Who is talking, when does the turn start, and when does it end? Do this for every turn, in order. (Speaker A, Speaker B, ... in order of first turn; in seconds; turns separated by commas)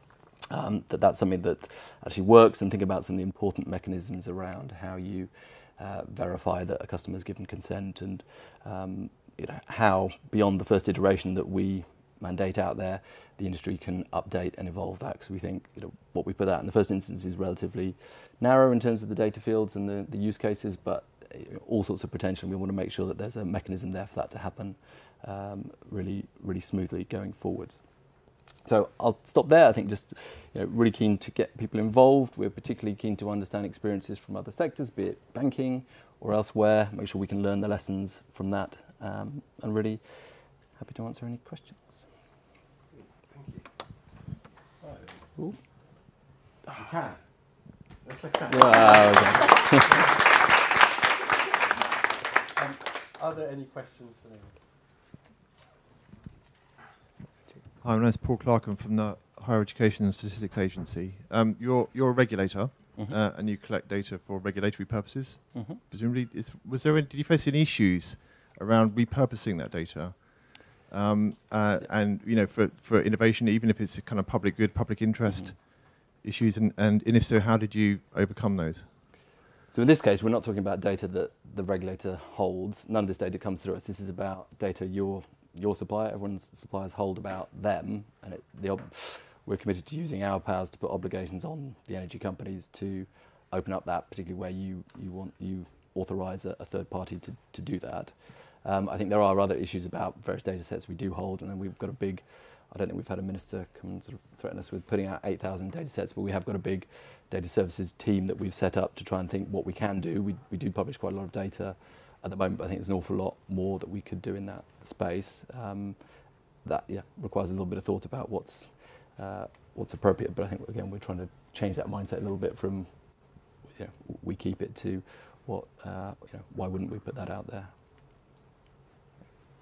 Speaker A: 0.5-27.8, Speaker A: 28.6-40.0, Speaker A: 40.8-42.0, Speaker B: 43.0-43.7, Speaker B: 44.6-45.1, Speaker B: 46.7-47.2, Speaker B: 48.0-49.5, Speaker A: 48.5-50.0, Speaker B: 52.5-54.6, Speaker C: 57.8-79.0, Speaker A: 62.9-63.2, Speaker A: 65.5-65.8, Speaker A: 79.7-116.0, Speaker A: 116.6-122.9, Speaker A: 123.7-127.7